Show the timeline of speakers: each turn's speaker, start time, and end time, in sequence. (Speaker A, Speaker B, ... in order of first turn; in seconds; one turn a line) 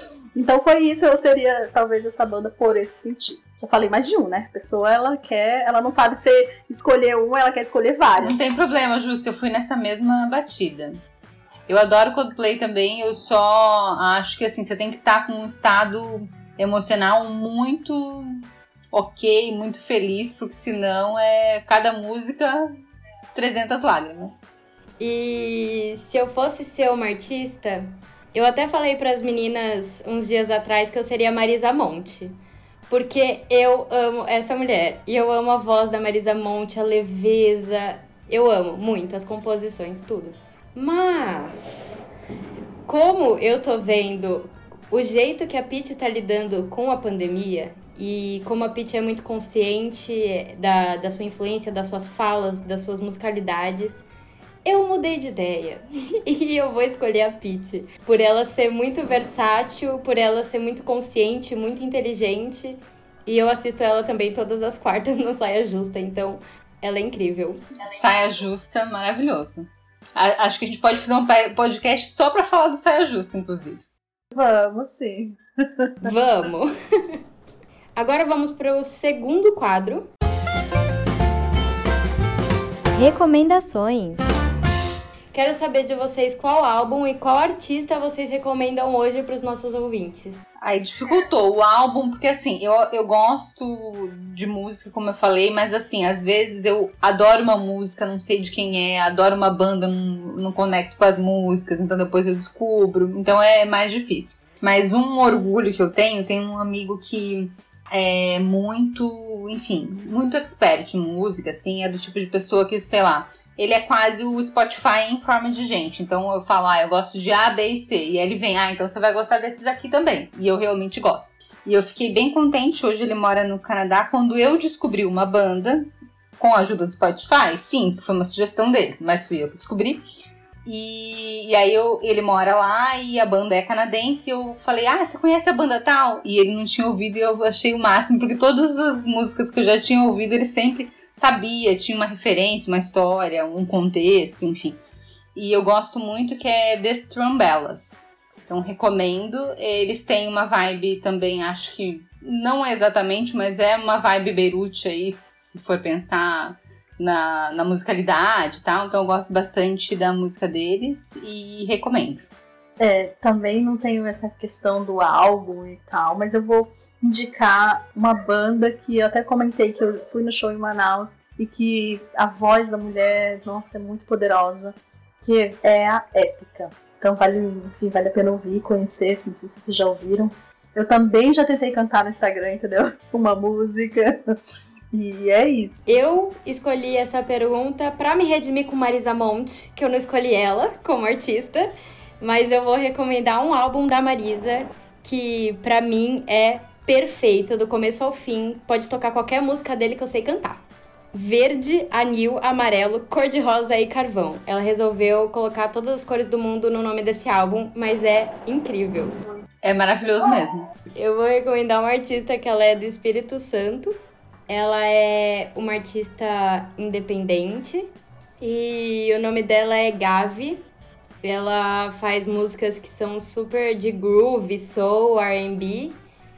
Speaker A: 0.3-8.4
Speaker B: 8.2-11.0
Speaker B: 11.7-22.7
Speaker B: 23.3-24.4
Speaker C: 25.0-32.4
Speaker C: 32.9-42.1
Speaker C: 42.9-54.1
Speaker C: 54.6-67.6
Speaker B: 67.8-73.9
Speaker A: 74.3-76.1
Speaker C: 76.0-77.2
Speaker C: 78.0-80.1
Speaker C: 82.9-84.3
Speaker C: 85.3-90.4
Speaker B: 90.6-130.1
Speaker B: 130.6-144.8
Speaker B: 145.3-162.3
Speaker A: 162.8-184.2
Speaker A: 184.9-185.9
Speaker C: 185.9-209.2
Speaker B: 209.6-210.7
Speaker C: 210.9-213.9
Speaker C: 214.5-217.9
Speaker C: 218.4-220.6
Speaker C: 221.2-226.0